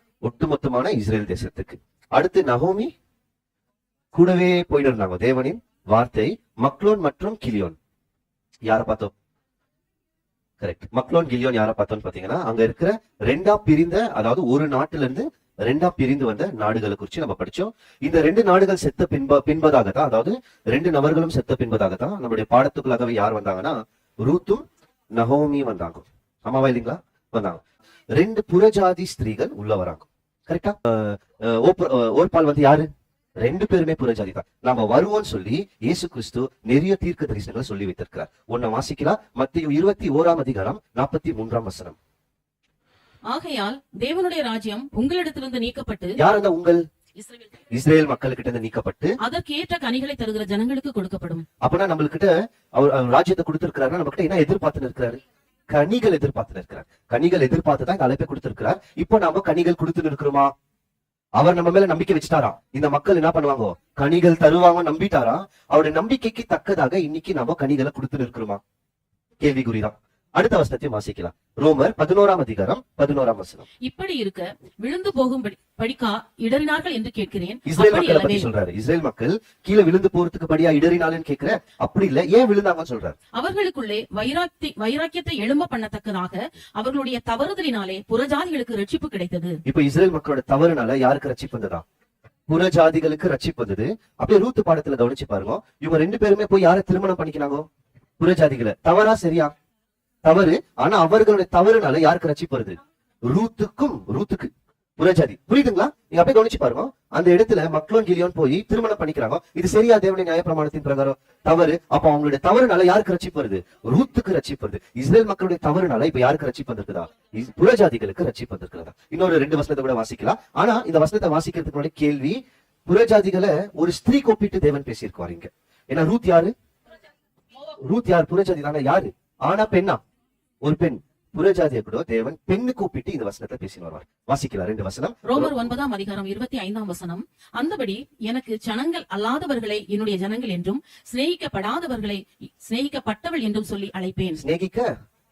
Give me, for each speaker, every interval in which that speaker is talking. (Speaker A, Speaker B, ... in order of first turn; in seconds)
Speaker A: 0.2-2.9, 4.1-7.8, 8.7-9.1, 10.6-27.6, 28.1-32.9, 33.4-42.0, 46.2-46.8, 47.7-49.2, 51.6-60.5, 61.4-68.6, 69.4-73.7, 77.7-83.2, 89.7-91.8, 92.5-97.7, 98.2-99.5, 100.2-126.5, 127.7-130.0, 130.6-135.7, 144.4-144.9
Speaker B: 43.3-46.2, 47.2-47.5, 49.2-51.5, 73.8-78.5, 83.3-89.6, 135.2-144.4